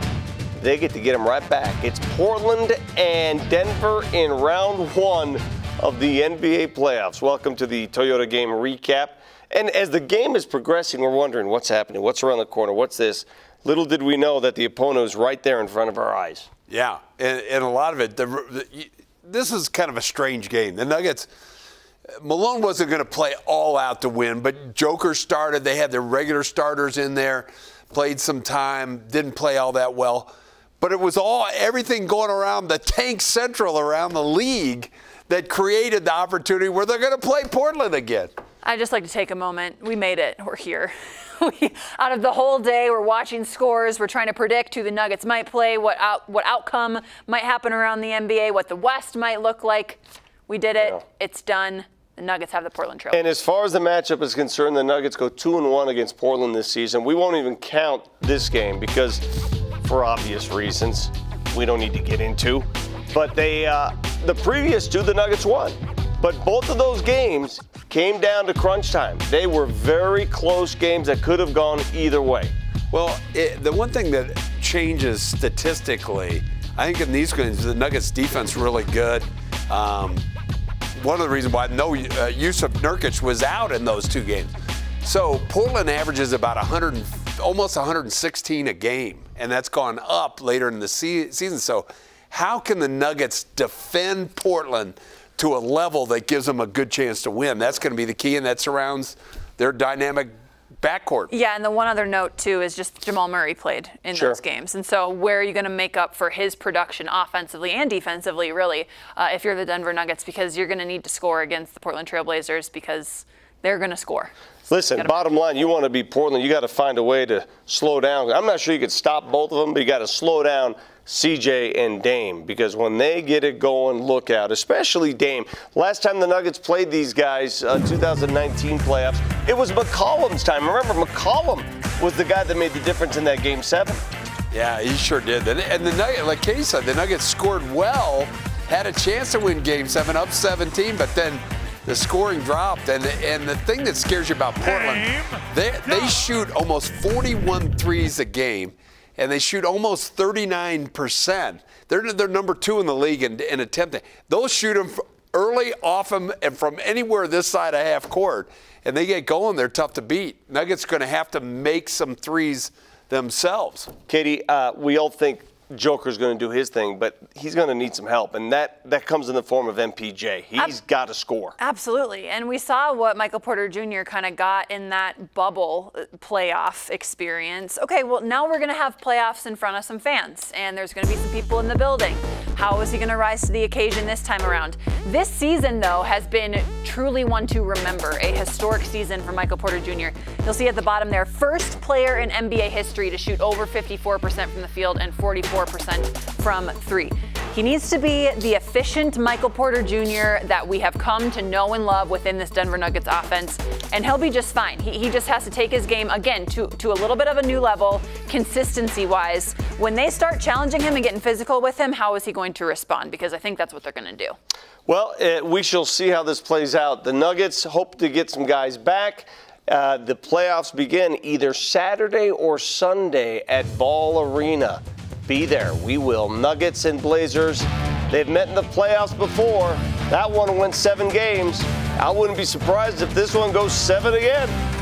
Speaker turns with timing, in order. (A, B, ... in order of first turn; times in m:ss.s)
0:00.6-0:16.5 A
0:16.7-0:21.3 B
0:22.2-0:38.3 B
0:38.6-0:53.3 C
0:53.1-1:12.5 A
1:12.9-1:20.2 B
1:21.0-1:24.5 B
1:25.0-1:41.3 B
1:41.3-1:54.3 C
1:44.1-1:44.4 A
1:54.7-2:14.0 A
1:54.9-1:55.3 C
2:14.5-2:43.9 B
2:44.1-2:51.6 A
2:51.6-3:34.4 C
3:34.9-3:54.5 A